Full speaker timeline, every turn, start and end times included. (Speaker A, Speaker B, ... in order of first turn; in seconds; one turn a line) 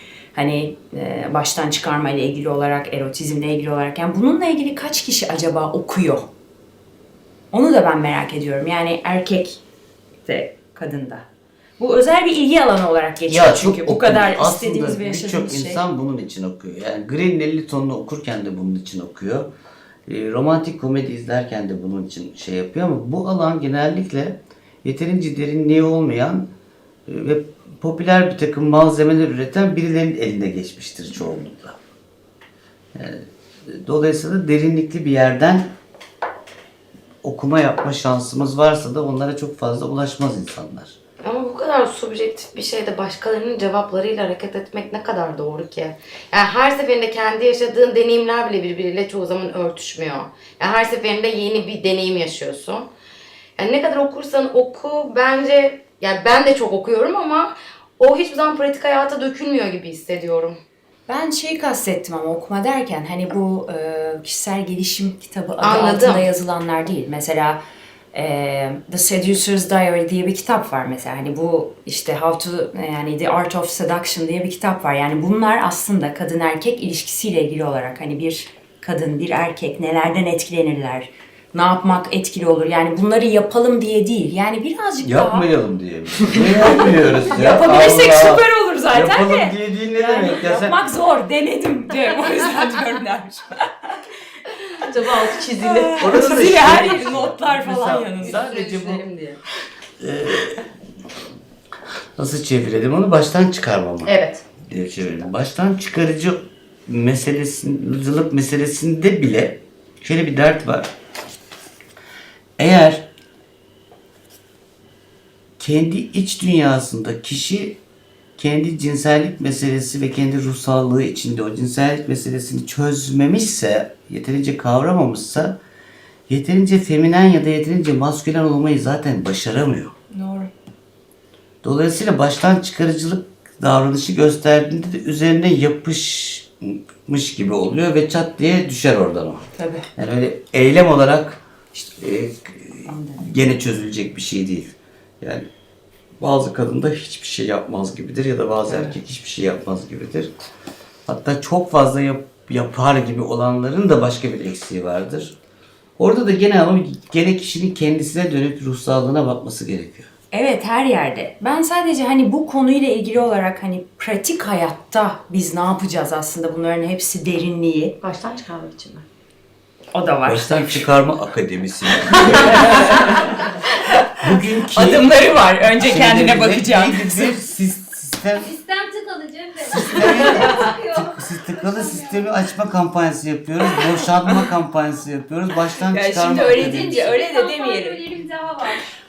Speaker A: 0.3-6.3
Speaker A: 7.5-9.6
Speaker A: 10.2-11.2
Speaker A: 11.8-15.8
Speaker B: 13.3-19.5
Speaker B: 20.1-26.5
Speaker B: 27.1-31.8
Speaker B: 32.9-35.7
Speaker B: 37.2-41.0
Speaker C: 41.2-52.9
Speaker C: 53.6-60.6
Speaker A: 61.1-67.6
Speaker C: 65.6-66.2
Speaker A: 68.1-85.5
Speaker B: 85.0-90.8
Speaker A: 86.2-93.9
Speaker D: 94.9-96.5
Speaker A: 95.6-98.5
Speaker B: 96.0-99.0
Speaker C: 98.2-99.4
Speaker B: 100.0-100.7
Speaker B: 102.2-104.1
Speaker D: 104.0-104.4
Speaker B: 104.6-110.9
Speaker B: 112.6-113.1
Speaker B: 115.6-117.8
Speaker B: 118.4-125.6
Speaker B: 126.3-129.9
Speaker A: 130.1-130.5
Speaker B: 131.6-145.4
Speaker A: 139.5-139.8
Speaker A: 142.8-143.5
Speaker B: 146.2-150.3
Speaker A: 148.7-148.9
Speaker B: 151.1-155.4
Speaker B: 156.0-160.1
Speaker A: 160.3-168.0
Speaker D: 168.0-169.1
Speaker A: 169.9-170.9
Speaker B: 170.2-173.0
Speaker A: 172.0-173.5
Speaker B: 174.2-178.6
Speaker A: 174.7-177.3
Speaker E: 178.4-182.3
Speaker B: 179.6-187.2
Speaker A: 180.1-180.6
Speaker A: 185.9-188.0
Speaker E: 186.5-188.8